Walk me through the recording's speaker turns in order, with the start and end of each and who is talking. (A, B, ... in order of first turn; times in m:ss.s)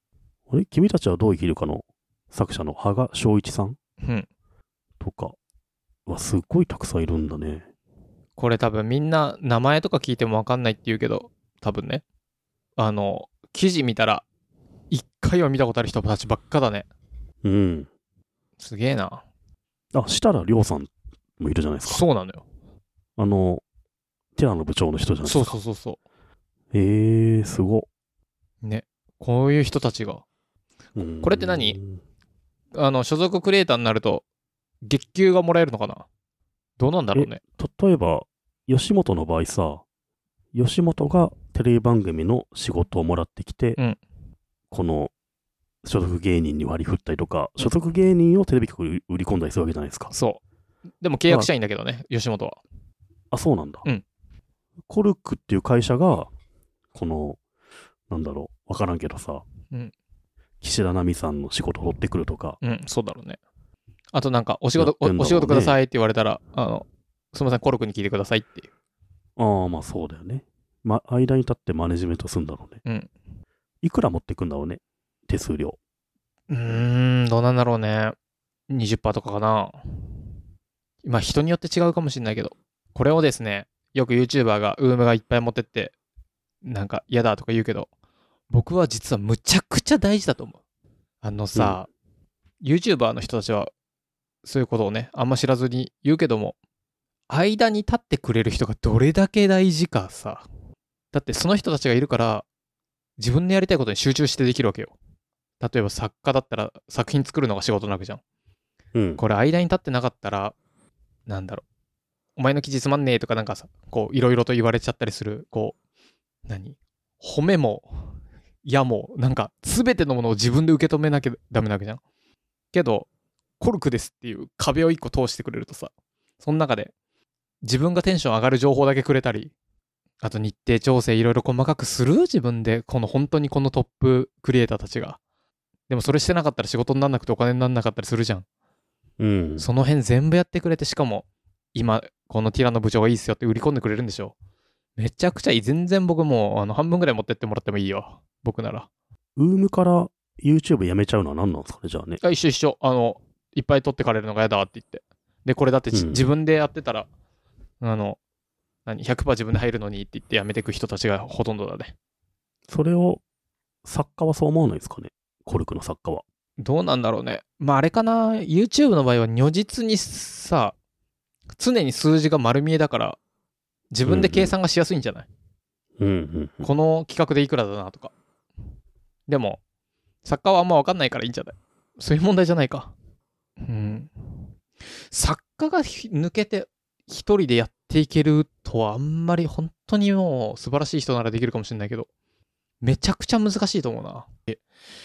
0:00.5-0:03.8 A
0:04.0-0:04.3 B
0:05.0-0:05.4 A
0:06.1-0:07.7 A
0:08.4-0:12.0 B
0:12.8-0:14.2 B
0:14.9-0:16.9 B
0:17.4-0:17.9 A
0:18.6-0:19.2 B
0:19.9-0:22.0 A
0:21.8-0:22.4 B
0:23.2-0:23.6 A
0:24.4-0:25.6 A
0:25.2-0:26.0 B
0:26.7-0:27.9 A
0:28.6-0:30.2 B
0:30.9-0:32.0 A
0:31.2-0:31.8 B
0:32.8-0:34.2 B
0:34.8-0:36.1 B
0:36.8-0:37.4 B
0:37.1-0:39.8 A
0:40.5-0:43.8 A
0:44.7-0:45.1 A
0:45.8-0:50.1 A
0:50.1-0:50.4 B
0:51.0-0:52.6 B
0:53.3-0:53.9 A
0:54.9-0:56.3 A
0:56.9-0:57.4 A
0:58.1-0:59.4 A
1:00.6-1:02.6 A
1:02.6-1:03.4 B
1:04.1-1:08.7 B
1:04.8-1:05.8 A
1:09.4-1:12.8 A
1:12.8-1:13.1 B
1:13.8-1:15.8 A
1:16.5-1:18.2 B
1:18.7-1:19.8 B
1:21.0-1:25.9 B
1:26.6-1:27.9 B
1:28.5-1:30.6 B
1:31.2-1:31.9 B
1:31.6-1:31.8 A
1:32.6-1:33.7 B
1:34.4-1:36.6 B
1:37.3-1:40.4 B
1:41.1-1:42.4 B
1:43.2-1:45.0 B
1:45.6-1:48.2 B
1:48.9-1:49.2 A
1:49.2-1:50.6 B
1:51.3-1:51.6 B
1:52.4-1:55.8 B
1:56.4-1:58.1 B
1:58.6-2:02.0 B
2:02.7-2:03.1 B
2:03.6-2:06.9 B
2:07.6-2:09.5 B
2:10.2-2:15.2 B
2:15.9-2:18.4 B
2:19.2-2:19.7 A
2:19.6-2:24.3 B
2:25.0-2:28.9 B
2:29.4-2:32.2 A
2:32.2-2:37.1 B
2:35.9-2:36.2 A
2:37.8-2:38.2 B
2:38.8-2:41.9 B
2:42.7-2:43.2 A
2:43.8-2:46.2 A
2:46.6-2:50.8 B
2:51.6-2:53.2 B
2:53.9-2:55.3 B
2:54.1-2:54.5 A
2:56.0-2:56.7 A
2:56.6-2:58.1 B
2:59.3-2:59.6 B
3:00.2-3:02.9 B
3:03.6-3:04.5 B
3:05.1-3:12.1 B
3:12.8-3:14.6 B